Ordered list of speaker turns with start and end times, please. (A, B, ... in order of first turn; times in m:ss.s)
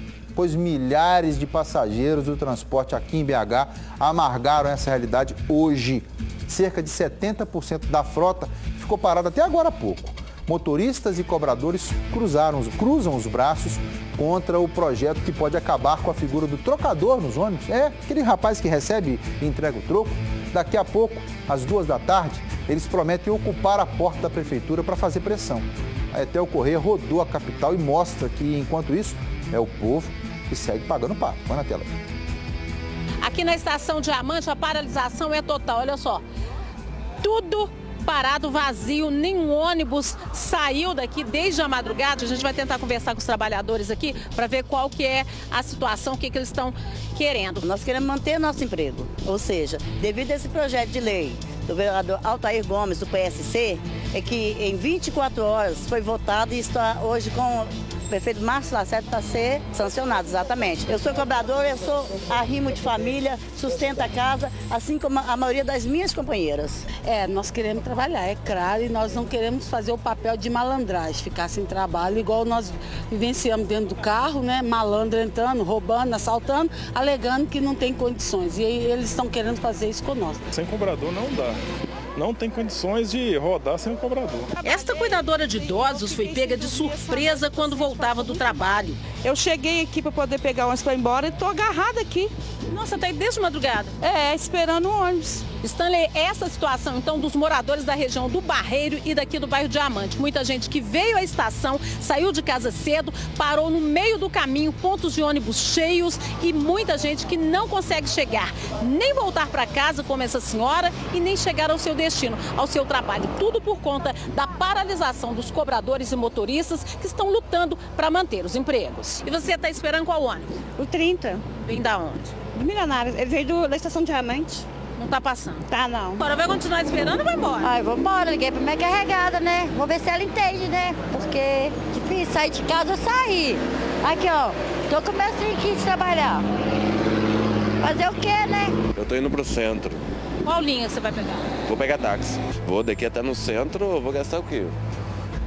0:00.3-0:31.9 A
0:33.2-0:36.2 B
0:37.2-0:47.6 B
0:47.6-1:06.8 C
1:06.9-1:20.4 D
1:20.5-1:21.6 E
1:22.2-1:24.5 E
1:24.6-1:29.0 B
1:24.7-1:25.2 F
1:25.9-1:28.5 F
1:29.2-1:32.3 F
1:32.7-1:33.9 B
1:34.0-1:35.4 F
1:35.6-2:00.5 B
2:00.8-2:01.4 G
2:01.6-2:02.3 B
2:02.6-2:04.5 G
2:05.0-2:05.6 B
2:05.7-2:06.2 C
2:06.2-2:07.7 B
2:07.6-2:16.4 H
2:17.8-2:18.7 H
2:18.9-2:20.0 I
2:20.4-2:21.4 B
2:21.6-2:24.7 I